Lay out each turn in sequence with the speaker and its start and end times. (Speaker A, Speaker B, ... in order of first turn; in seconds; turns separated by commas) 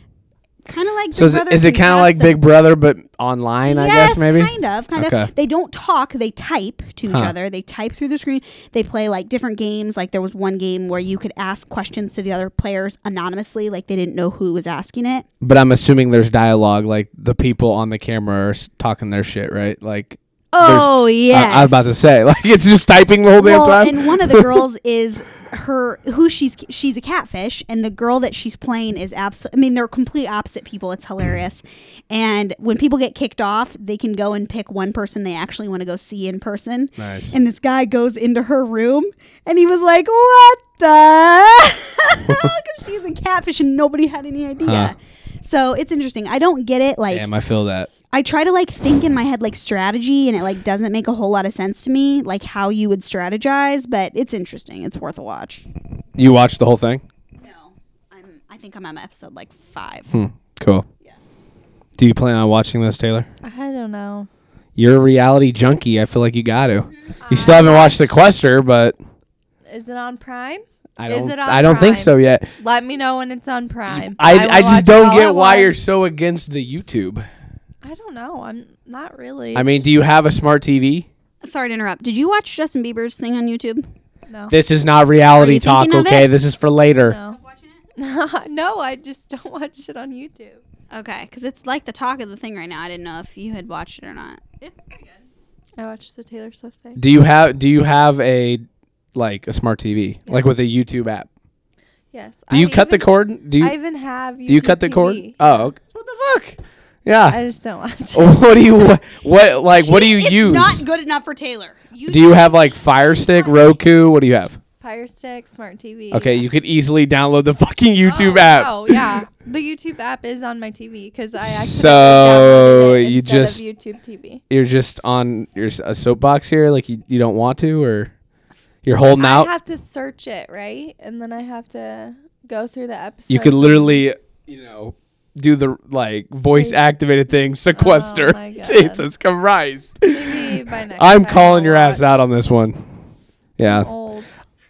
Speaker A: 0.7-2.4, Speaker B: 1.1-5.3, Speaker A: 3.7-15.3, Speaker B: 7.1-7.3, Speaker B: 15.4-24.6, Speaker A: 20.5-21.9, Speaker A: 23.4-47.3, Speaker B: 37.0-37.4, Speaker B: 44.6-44.9, Speaker B: 47.1-47.9, Speaker A: 48.1-55.7, Speaker B: 56.2-57.0, Speaker A: 57.4-60.1, Speaker B: 60.1-60.9, Speaker B: 62.0-63.3, Speaker C: 63.4-64.3, Speaker B: 64.8-69.0, Speaker C: 67.2-68.1, Speaker C: 69.7-75.8, Speaker B: 71.0-72.5, Speaker B: 73.9-77.3, Speaker C: 77.8-79.8, Speaker B: 79.5-81.1, Speaker A: 81.4-83.9, Speaker C: 84.3-84.5, Speaker B: 84.5-87.2, Speaker A: 85.3-86.3, Speaker C: 87.1-87.4, Speaker A: 87.3-87.8, Speaker C: 88.0-90.6, Speaker A: 90.9-95.3, Speaker C: 95.8-97.0, Speaker B: 97.0-98.6, Speaker B: 99.2-101.3, Speaker C: 102.1-105.4, Speaker B: 102.5-103.8, Speaker B: 104.5-107.4, Speaker C: 107.3-108.4, Speaker B: 108.1-110.8, Speaker A: 109.8-113.9, Speaker B: 112.1-114.6, Speaker C: 114.8-116.4, Speaker B: 116.1-119.1, Speaker C: 118.0-124.4, Speaker B: 121.4-123.6, Speaker B: 124.5-128.1, Speaker B: 128.8-129.5, Speaker C: 129.2-134.1, Speaker B: 133.3-142.9, Speaker C: 136.5-136.8, Speaker C: 137.8-139.0, Speaker C: 140.1-142.2, Speaker B: 143.6-143.9, Speaker C: 143.6-144.3